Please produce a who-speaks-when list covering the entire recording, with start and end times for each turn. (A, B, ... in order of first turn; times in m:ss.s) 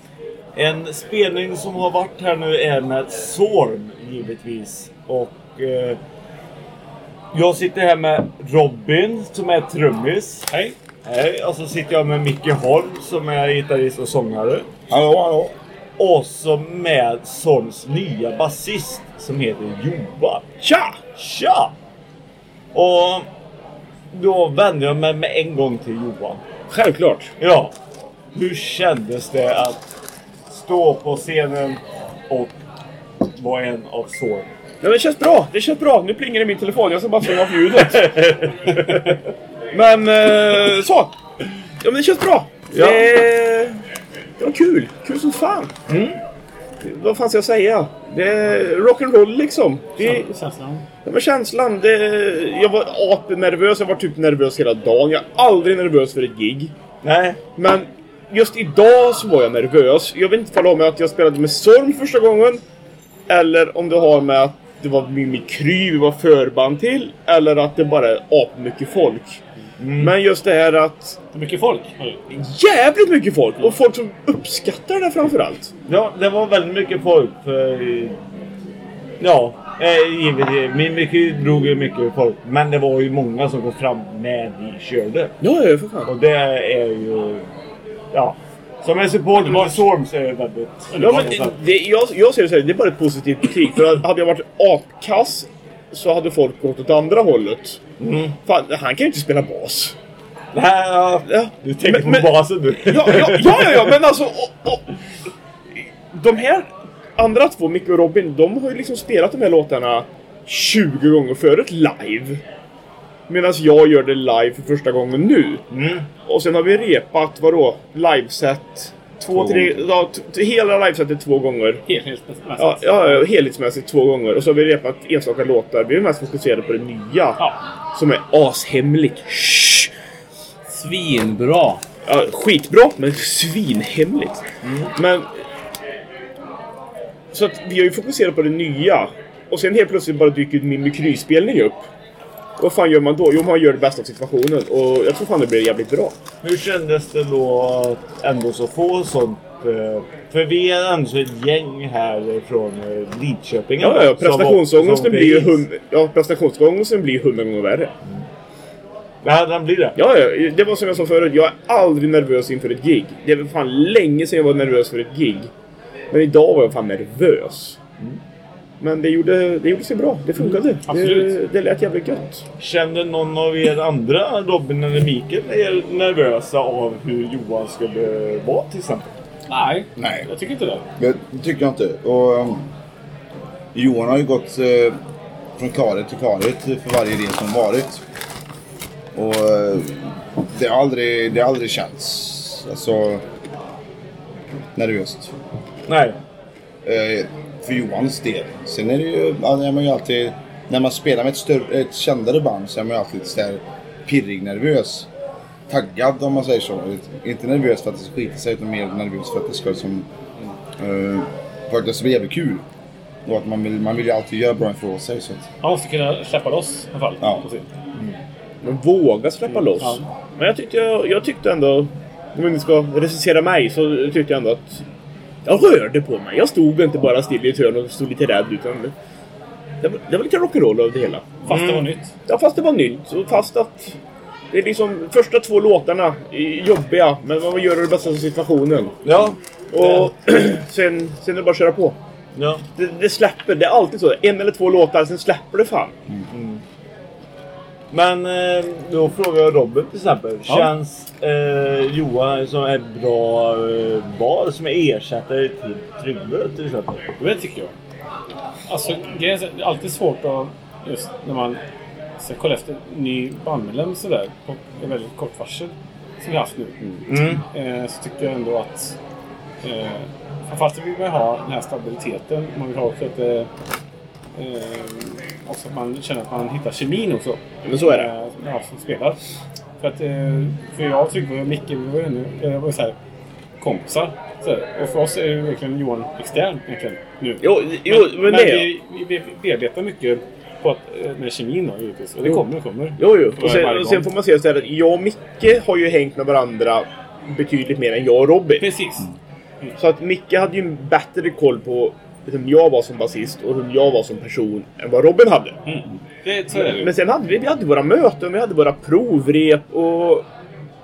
0:00.5-0:06.0 A
0:07.3-0:10.5 A
0:10.5-0:10.8 B
0:11.0-0:14.7 A
0:14.9-0:15.5 C
0:16.0-0:20.5 A
0:20.6-0:21.0 D
0:21.2-0:21.7 A
0:22.7-0:23.3 A
0:24.1-0:26.4 A
0:26.7-0:27.3 D
0:27.4-0:27.7 A
0:28.3-0:29.9 A
0:30.5-0:32.6 A
0:33.4-0:34.5 A
0:34.8-0:38.3 D
0:37.7-0:39.0 A
0:39.7-0:41.1 D
0:41.8-0:43.8 D
0:42.7-0:43.1 A
0:44.4-0:45.7 D
0:45.9-0:46.2 A
0:46.8-0:50.2 D
0:50.0-0:50.8 B
0:51.0-0:56.7 D
0:57.0-0:57.4 A
0:57.6-1:02.6 D
1:03.3-1:09.4 D
1:09.8-1:10.2 A
1:10.0-1:11.2 D
1:11.3-1:12.2 B
1:12.3-1:15.7 D
1:15.9-1:18.2 A
1:19.2-1:25.4 A
1:25.4-1:26.1 D
1:26.1-1:27.5 A
1:28.1-1:31.6 A
1:29.3-1:29.9 B
1:30.9-1:31.4 B
1:31.0-1:37.8 D
1:38.0-1:38.4 A
1:38.4-1:40.0 D
1:40.5-1:43.9 A
1:41.3-1:44.8 D
1:46.1-1:52.4 D
1:53.3-1:55.6 D
1:55.7-1:56.1 A
1:56.2-2:01.8 D
1:59.3-1:59.9 C
2:01.9-2:03.3 B
2:02.6-2:07.4 D
2:08.0-2:09.9 D
2:10.7-2:11.8 B
2:12.1-2:15.3 D
2:14.6-2:14.9 A
2:17.3-2:21.9 D
2:22.6-2:26.2 D
2:26.4-2:35.6 A
2:33.8-2:37.9 D
2:39.2-2:40.0 A
2:40.0-2:45.5 D
2:46.1-2:47.8 D
2:48.8-2:52.4 D
2:50.8-2:51.4 B
2:52.6-2:59.1 A
2:59.5-3:00.9 B
3:00.0-3:00.3 C
3:01.0-3:02.7 C
3:03.7-3:05.0 C
3:05.6-3:08.0 C
3:09.2-3:13.2 C
3:14.8-3:15.3 C
3:15.9-3:16.2 A
3:16.8-3:25.1 C
3:25.7-3:30.1 C
3:30.8-3:32.6 C
3:33.3-3:35.5 C
3:35.6-3:37.7 B
3:38.6-3:44.8 D
3:45.4-3:48.9 D
3:49.8-3:51.5 D
3:51.5-3:52.1 B
3:51.5-3:51.9 A
3:52.3-3:54.0 D
3:54.5-3:59.0 D
3:59.0-4:00.1 A
3:59.7-4:02.0 D
4:02.4-4:02.6 A
4:02.8-4:06.0 D
4:06.3-4:06.6 A
4:07.9-4:17.1 A
4:10.5-4:10.7 B
4:17.2-4:17.7 B
4:18.7-4:21.6 B
4:22.2-4:29.0 B
4:27.1-4:27.4 A
4:29.6-4:33.5 B
4:34.4-4:39.2 B
4:37.7-4:38.1 D
4:39.8-4:43.0 B
4:43.6-4:54.1 B
4:47.4-4:48.7 D
4:53.0-4:58.7 D
4:58.6-4:59.1 B
4:59.8-5:05.6 D
5:05.7-5:06.9 B
5:06.6-5:10.3 D